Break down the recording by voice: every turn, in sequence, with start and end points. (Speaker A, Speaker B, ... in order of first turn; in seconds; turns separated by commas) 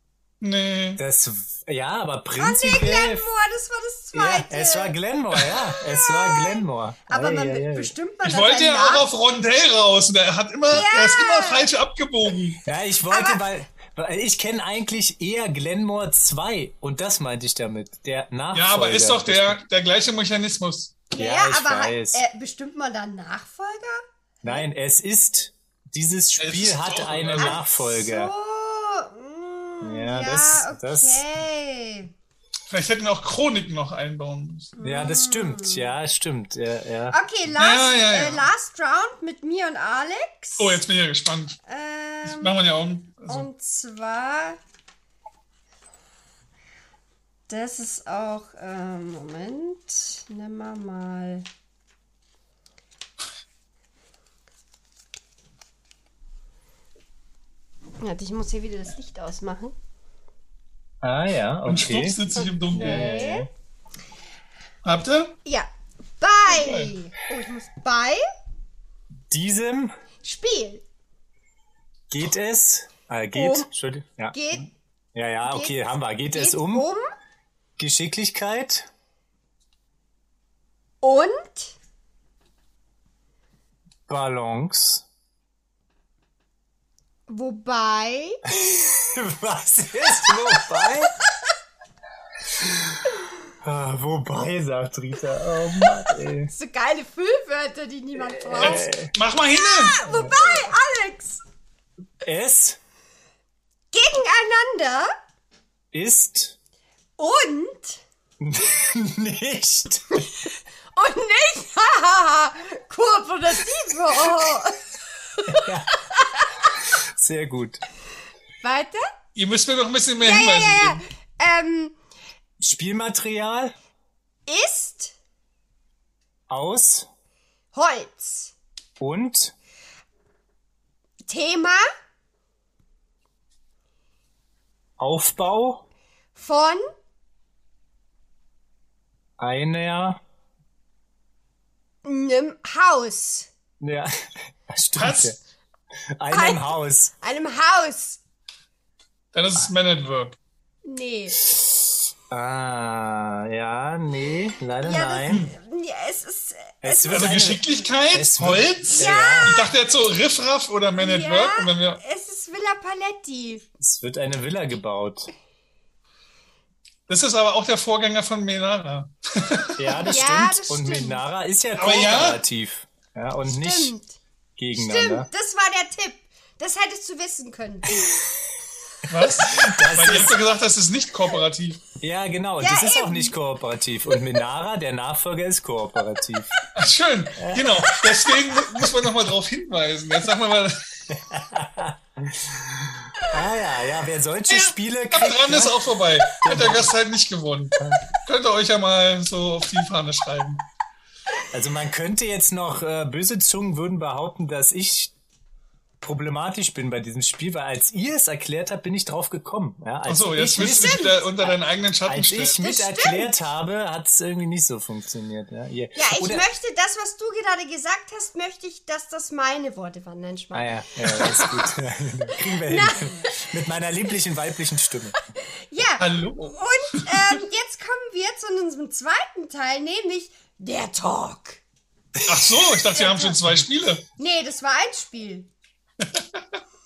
Speaker A: 0.4-1.0, Speaker B: 1.0-3.3, Speaker C: 2.4-5.0, Speaker B: 4.1-7.9, Speaker C: 5.9-9.1, Speaker A: 8.2-12.6, Speaker C: 10.7-11.7, Speaker B: 12.7-19.6, Speaker C: 13.1-13.4, Speaker A: 18.5-21.0, Speaker C: 21.1-24.7, Speaker B: 21.2-22.2, Speaker B: 24.4-28.3, Speaker A: 26.4-27.6, Speaker C: 27.4-32.1, Speaker B: 29.8-31.2, Speaker A: 32.7-34.8, Speaker C: 34.8-35.9, Speaker B: 34.8-37.2, Speaker C: 37.1-40.8, Speaker A: 37.6-38.5, Speaker A: 40.6-41.6, Speaker C: 41.7-42.6, Speaker A: 42.2-43.5, Speaker C: 43.3-44.6, Speaker C: 47.5-51.5, Speaker C: 58.0-59.8, Speaker B: 61.0-62.2, Speaker A: 61.7-63.1, Speaker C: 62.4-63.5, Speaker B: 62.7-63.5, Speaker A: 64.8-65.4, Speaker C: 66.2-68.2, Speaker A: 66.5-67.0, Speaker B: 69.3-69.9, Speaker C: 70.2-70.8, Speaker B: 72.1-74.5, Speaker C: 73.3-73.7, Speaker C: 74.3-74.7, Speaker B: 75.1-76.9, Speaker C: 75.5-75.8, Speaker C: 76.3-77.0, Speaker B: 77.8-78.9, Speaker C: 81.0-81.8, Speaker B: 84.1-85.0, Speaker C: 87.3-88.4, Speaker B: 88.5-91.1, Speaker B: 92.6-93.0, Speaker B: 93.6-96.5, Speaker C: 96.5-98.9, Speaker B: 98.4-99.1, Speaker A: 98.6-100.0, Speaker C: 99.5-101.4, Speaker B: 100.1-100.5, Speaker B: 102.2-102.8, Speaker C: 103.9-105.1, Speaker B: 105.9-106.6, Speaker C: 107.2-108.0, Speaker B: 108.4-110.3, Speaker C: 111.0-114.8, Speaker C: 115.3-116.7, Speaker B: 115.5-115.9, Speaker B: 116.7-117.8, Speaker C: 118.6-119.1, Speaker A: 119.3-121.0, Speaker C: 120.2-122.0, Speaker B: 122.6-123.8, Speaker C: 124.5-125.1, Speaker B: 126.5-127.1, Speaker C: 127.7-128.6, Speaker B: 129.0-129.5, Speaker C: 131.3-131.8, Speaker B: 135.0-135.8, Speaker C: 136.3-136.8, Speaker B: 139.4-140.2, Speaker C: 142.0-143.5, Speaker B: 143.8-145.4, Speaker A: 145.0-145.4, Speaker B: 146.2-147.1, Speaker C: 146.3-148.2, Speaker A: 149.3-150.4, Speaker C: 150.9-151.4, Speaker B: 151.5-155.5, Speaker C: 154.8-157.5, Speaker A: 155.3-155.5, Speaker B: 156.8-159.6, Speaker A: 157.1-162.0, Speaker C: 159.0-159.6, Speaker C: 161.0-163.7, Speaker B: 163.8-165.3, Speaker A: 167.1-170.0, Speaker B: 169.8-173.9, Speaker C: 170.1-171.2, Speaker A: 171.8-172.4, Speaker C: 173.5-174.2, Speaker B: 174.6-175.3, Speaker C: 174.7-178.1, Speaker A: 179.1-181.8, Speaker B: 179.5-180.4, Speaker B: 182.0-186.6, Speaker C: 182.6-183.3, Speaker A: 186.7-190.8, Speaker B: 187.4-187.8, Speaker B: 191.1-195.8, Speaker A: 194.5-200.6, Speaker B: 196.4-196.9, Speaker B: 197.8-198.1, Speaker B: 201.5-205.1, Speaker B: 206.0-216.4, Speaker A: 210.1-212.6, Speaker C: 210.6-211.2, Speaker C: 212.6-213.3, Speaker C: 216.0-221.7, Speaker B: 220.5-225.2, Speaker C: 222.5-223.4, Speaker C: 225.5-231.6, Speaker A: 226.0-227.4, Speaker B: 232.2-232.6, Speaker A: 232.2-234.0, Speaker C: 232.9-233.4, Speaker C: 234.2-235.5, Speaker A: 236.1-236.4